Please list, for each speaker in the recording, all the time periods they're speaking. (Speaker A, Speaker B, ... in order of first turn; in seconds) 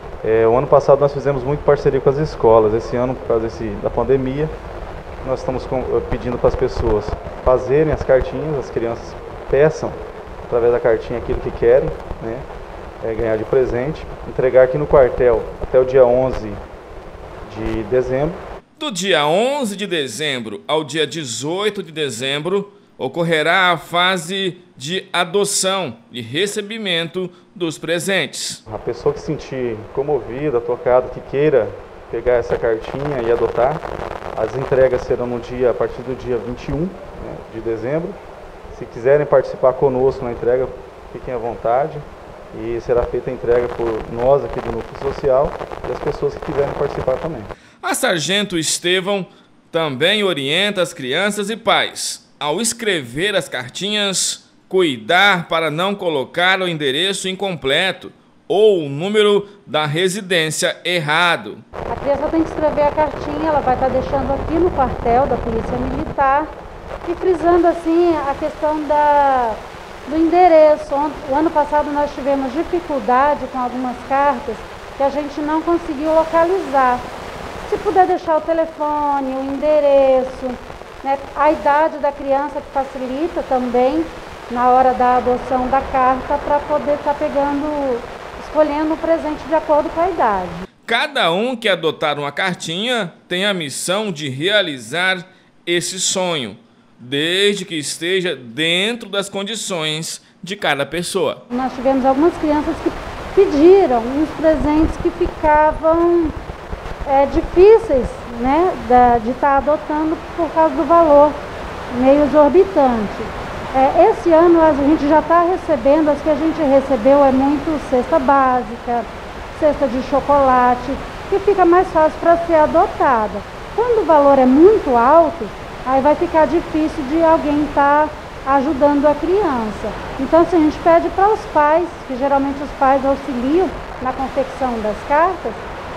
Speaker A: 0.2-4.5, 5.2-10.0, 10.5-12.4, 13.0-16.6, 17.4-18.4, 28.7-38.2, 38.7-47.5
Speaker B: 18.8-28.6, 47.8-61.6, 90.8-101.4
Speaker C: 61.9-66.5, 67.0-77.0, 77.6-90.7, 101.5-106.3, 107.0-111.4, 111.9-135.6